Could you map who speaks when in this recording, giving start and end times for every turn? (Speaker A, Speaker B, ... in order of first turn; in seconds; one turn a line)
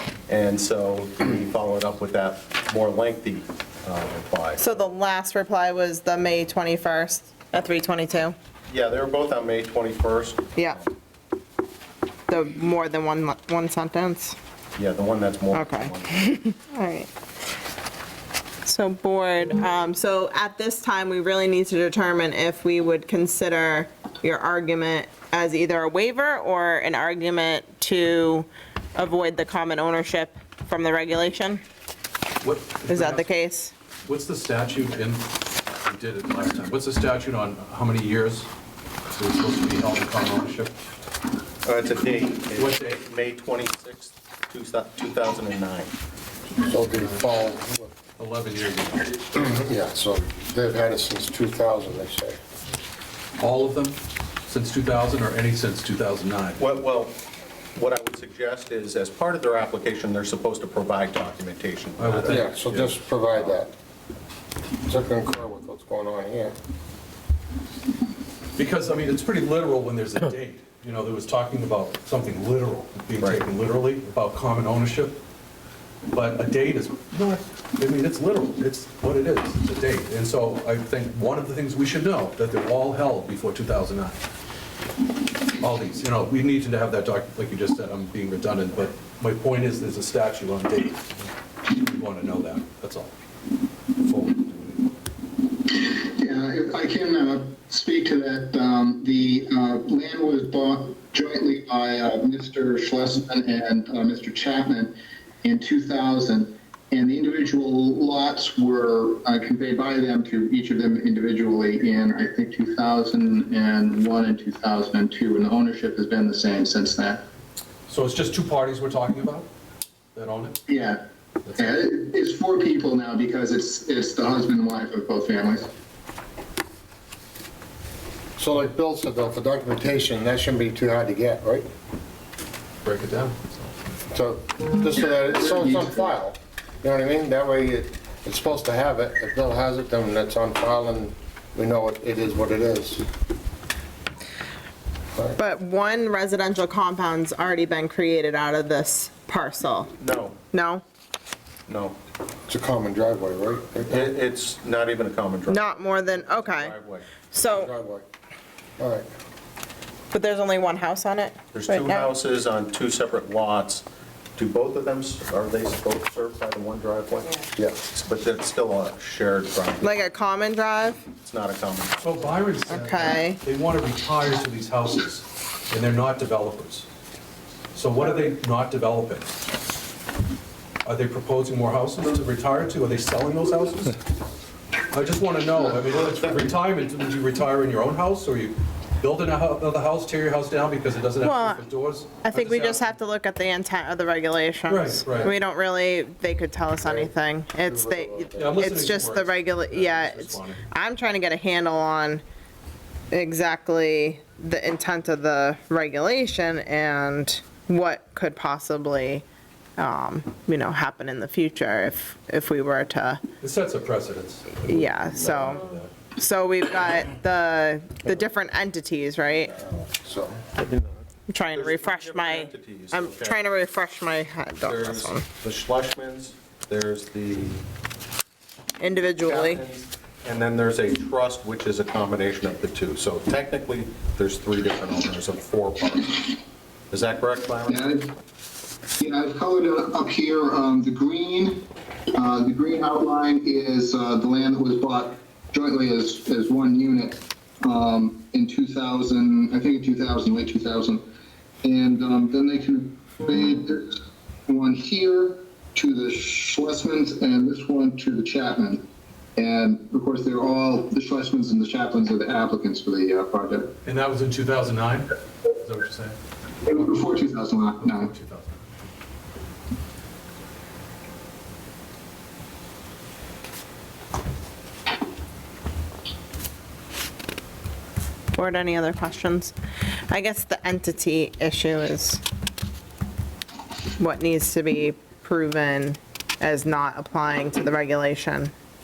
Speaker A: 0.3-4.7
Speaker B: 4.6-8.4
Speaker A: 8.7-10.9
Speaker B: 12.3-14.4
Speaker A: 14.8-16.2
Speaker B: 15.5-17.1
Speaker B: 18.6-31.6
Speaker C: 32.4-33.3
Speaker B: 32.9-33.7
Speaker C: 34.1-35.3
Speaker C: 35.8-38.5
Speaker C: 39.1-40.7
Speaker A: 41.6-45.9
Speaker C: 42.5-43.0
Speaker D: 46.6-47.9
Speaker C: 46.8-47.2
Speaker C: 48.2-49.3
Speaker D: 49.3-52.4
Speaker C: 53.4-56.6
Speaker A: 56.6-57.2
Speaker A: 57.8-63.6
Speaker C: 62.0-62.5
Speaker D: 62.3-63.7
Speaker D: 64.9-66.5
Speaker C: 68.6-75.2
Speaker C: 76.1-84.2
Speaker C: 85.6-93.1
Speaker C: 94.0-94.9
Speaker E: 95.7-117.2
Speaker C: 117.9-119.5
Speaker C: 120.2-120.6
Speaker E: 120.7-121.0
Speaker C: 121.5-121.8
Speaker E: 121.6-125.7
Speaker D: 128.4-131.7
Speaker C: 132.8-133.6
Speaker D: 134.1-143.0
Speaker E: 135.2-136.1
Speaker B: 145.4-149.9
Speaker A: 150.0-150.4
Speaker B: 150.5-150.8
Speaker A: 151.7-152.0
Speaker D: 152.5-154.1
Speaker A: 153.9-157.1
Speaker B: 155.5-156.8
Speaker B: 157.3-157.7
Speaker D: 157.4-158.1
Speaker D: 158.8-159.1
Speaker B: 160.1-162.1
Speaker A: 161.5-163.8
Speaker A: 164.4-167.4
Speaker A: 167.9-169.9
Speaker B: 169.8-171.0
Speaker A: 171.2-172.1
Speaker C: 172.0-176.9
Speaker B: 172.7-173.4
Speaker C: 177.7-179.4
Speaker C: 180.8-184.0
Speaker C: 184.9-192.9
Speaker B: 191.2-191.6
Speaker B: 192.2-202.2
Speaker C: 194.7-195.3
Speaker D: 196.8-197.1
Speaker D: 197.6-198.7
Speaker C: 198.4-200.6
Speaker B: 203.1-209.2
Speaker B: 209.8-213.2
Speaker C: 213.4-215.9
Speaker B: 214.6-219.6
Speaker D: 219.5-220.5
Speaker A: 220.6-223.4
Speaker B: 221.3-225.3
Speaker A: 224.6-227.6
Speaker B: 228.8-229.6
Speaker A: 229.2-236.4
Speaker A: 236.9-237.9
Speaker E: 237.7-238.1
Speaker E: 239.0-241.6
Speaker E: 242.1-251.0
Speaker E: 251.6-258.8
Speaker E: 259.4-263.7
Speaker C: 263.9-267.1
Speaker E: 266.6-268.1
Speaker C: 267.8-268.8
Speaker B: 278.4-279.6
Speaker B: 280.1-282.2
Speaker B: 284.0-288.5